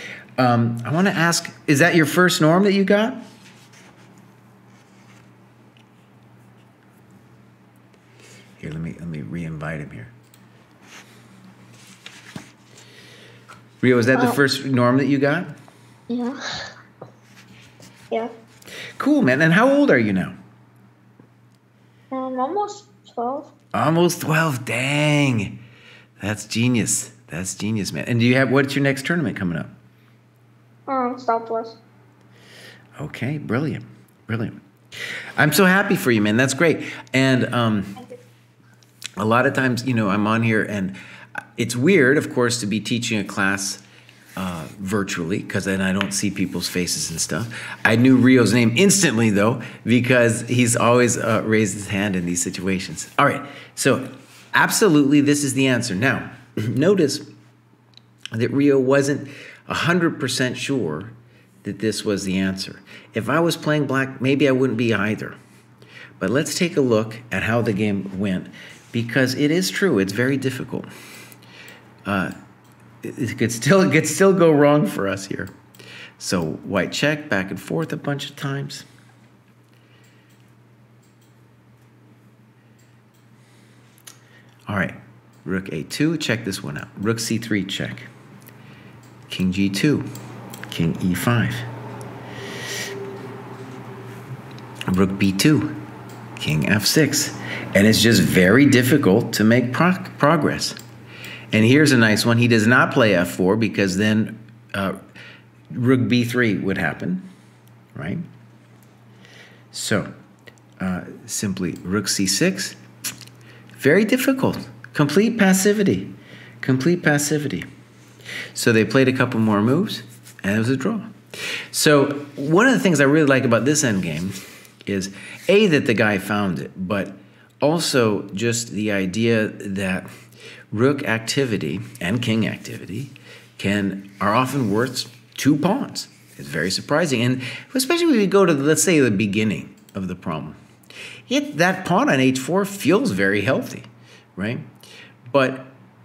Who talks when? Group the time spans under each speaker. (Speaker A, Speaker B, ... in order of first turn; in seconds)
Speaker A: 0.4-3.2, 8.6-10.1, 13.8-15.6, 19.0-20.4, 23.7-25.6, 26.2-29.7, 33.0-34.6, 35.4-38.0, 39.2-43.8, 44.4-57.3, 58.3-65.4, 66.2-70.9, 72.1-72.3, 73.0-75.5, 76.2-78.9, 84.7-88.1, 89.3-90.1, 90.7-91.7, 94.9-95.8, 96.4-100.8, 101.5-105.0, 105.7-107.3, 108.0-108.2, 109.7-110.1, 110.8-112.8, 113.8-117.7, 118.5-130.1, 130.7-140.6, 141.3-144.7, 145.3-145.7
Speaker B: 16.1-16.7, 22.1-23.5, 30.9-31.8